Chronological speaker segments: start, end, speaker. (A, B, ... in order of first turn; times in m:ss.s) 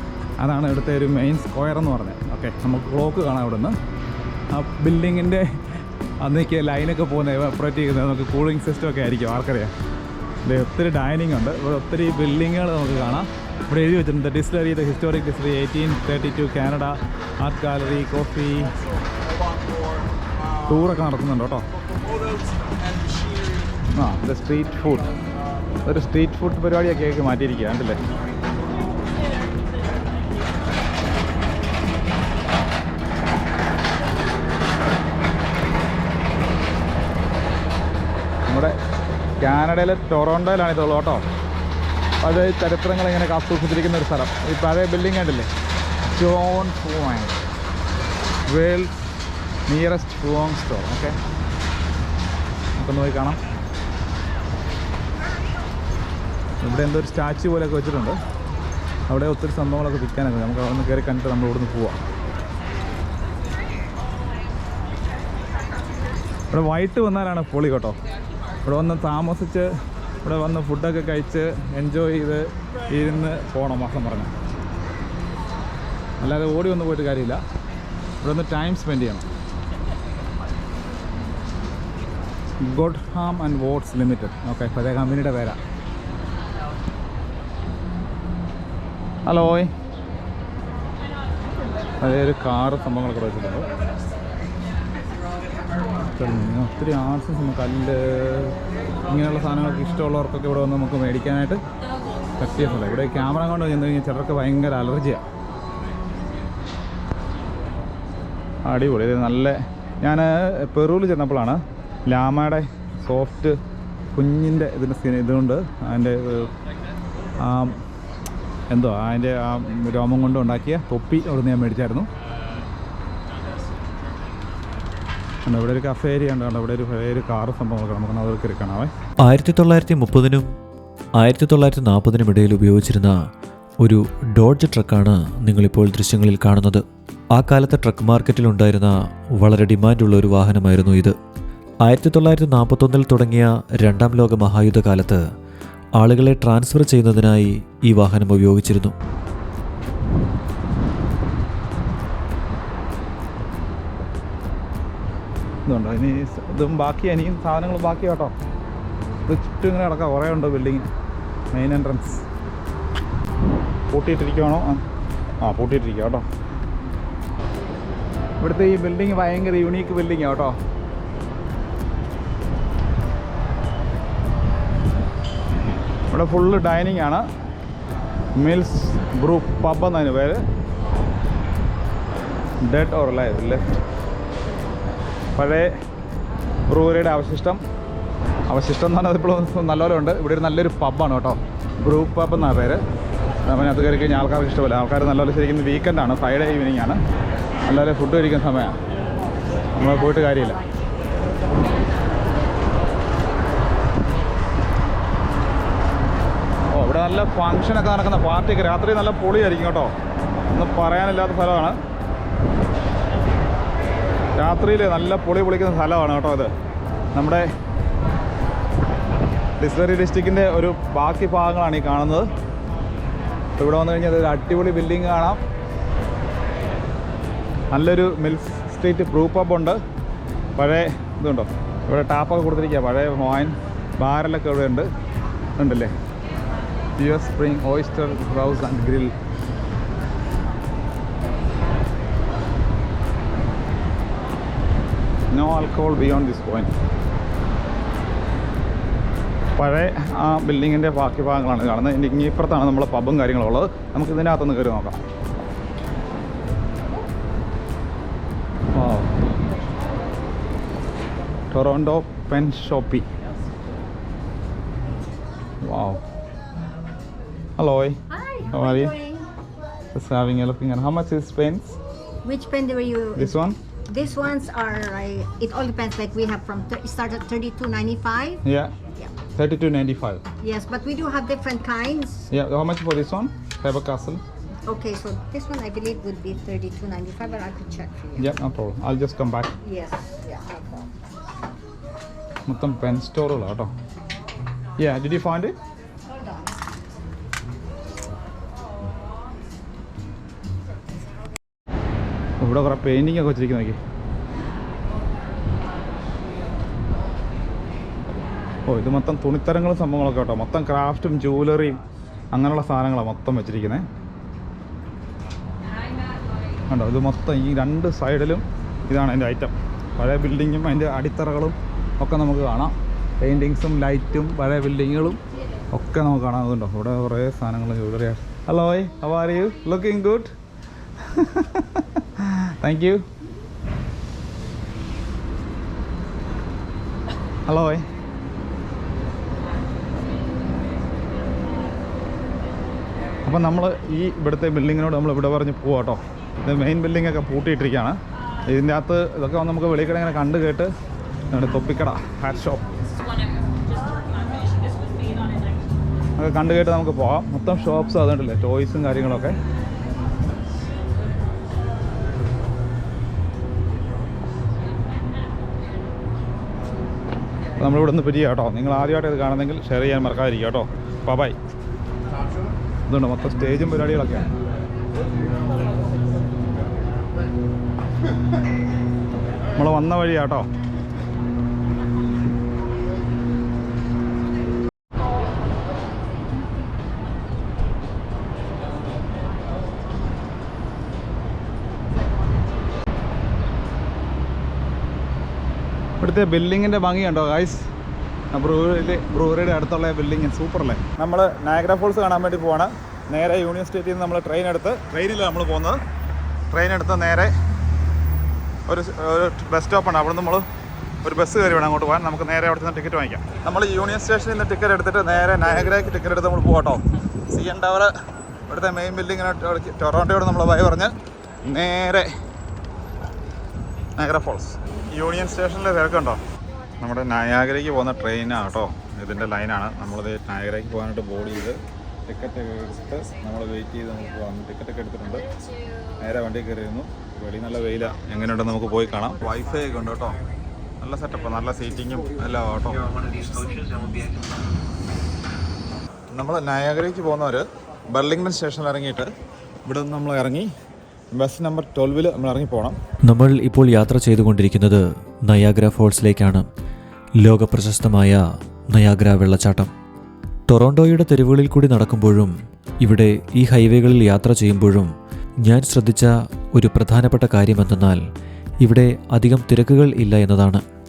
0:00.4-0:03.8 A
0:04.5-0:05.5 A
0:06.2-0:09.7 A
0:10.5-0:18.7 A
0:20.7-0:21.6 A
0:24.0-0:25.1 A
0:25.9-0:28.0 A
0:38.5-0:38.8 A
0:39.4-0:41.2 A
0:42.2-0:45.5 A
0:46.1-0:47.4 A
0:48.5-0:48.9 A
0:49.7-0:51.2 A
0:52.8-0:53.4 A
0:56.6-0:58.2 A
0:59.1-1:02.0 A
1:06.5-1:08.0 A
1:08.7-1:09.7 A
1:10.2-1:14.3 A
1:16.2-1:17.4 A
1:18.2-1:19.2 A
1:22.6-1:25.6 A
1:29.3-1:29.7 A
1:32.0-1:33.7 A
1:36.1-1:38.6 A
1:39.1-1:41.6 A
1:42.4-1:45.2 A
1:48.7-1:53.6 A
1:54.2-1:56.5 A
1:57.4-1:57.8 A
1:58.7-2:02.1 A
2:05.5-2:08.9 A
2:09.2-2:10.5 B
2:11.2-2:13.1 B
2:13.8-2:16.8 B
2:17.3-2:21.2 B
2:21.8-2:25.2 B
2:26.0-2:28.9 B
2:35.7-2:38.3 A
2:39.3-2:40.9 A
2:41.5-2:42.2 A
2:43.9-2:44.8 A
2:45.4-2:46.2 A
2:48.4-2:50.5 A
2:56.1-2:57.2 A
2:58.4-3:00.4 A
3:02.6-3:03.6 A
3:05.4-3:05.7 A
3:06.7-3:07.6 A
3:08.5-3:12.8 A
3:13.5-3:17.0 A
3:17.7-3:18.8 A
3:19.8-3:20.6 A
3:26.7-3:29.9 A
3:30.5-3:31.8 A
3:34.4-3:36.5 A
3:37.1-3:37.5 A
3:39.6-3:42.3 A
3:43.6-3:45.4 A
3:47.7-3:49.8 A
3:50.6-3:54.9 A
3:55.6-3:55.9 A
3:57.0-3:59.1 A
4:05.3-4:06.7 A
4:09.6-4:15.0 A
4:18.8-4:19.1 A
4:21.5-4:23.1 A
4:25.6-4:26.0 A
4:27.6-4:28.0 A
4:28.1-4:29.3 C
4:28.5-4:29.0 A
4:29.9-4:31.8 A
4:32.2-4:33.4 C
4:33.2-4:33.6 A
4:33.9-4:38.4 C
4:38.4-4:38.8 A
4:39.3-4:40.2 A
4:40.4-4:42.3 C
4:42.3-4:44.2 A
4:44.7-4:48.3 C
4:48.2-4:49.5 A
4:49.6-4:50.9 C
4:52.5-4:53.7 A
4:54.8-4:55.6 A
4:56.1-4:56.5 C
5:02.4-5:03.8 A
5:08.7-5:11.8 A
5:12.3-5:13.9 A
5:16.7-5:25.2 A
5:25.7-5:30.3 A
5:31.0-5:33.0 A
5:37.5-5:37.8 A
5:43.2-5:48.0 A
5:48.5-5:50.7 A
5:51.3-5:52.6 A
5:56.2-5:59.4 A
6:07.6-6:11.4 A
6:12.9-6:14.3 A
6:19.6-6:20.4 A
6:36.0-6:37.6 A
6:38.3-6:45.8 A
6:46.5-6:47.3 A
6:48.7-6:50.4 A
6:51.0-6:57.9 A
6:58.5-7:00.9 A
7:01.4-7:02.1 A
7:04.0-7:06.2 A
7:06.8-7:15.3 A
7:16.0-7:20.2 A
7:20.8-7:22.9 A
7:26.1-7:29.1 A
7:29.7-7:30.5 A
7:31.1-7:32.8 A
7:33.1-7:36.5 B
7:37.2-7:39.7 B
7:40.5-7:44.9 B
7:45.4-7:48.0 B
7:48.6-7:50.6 B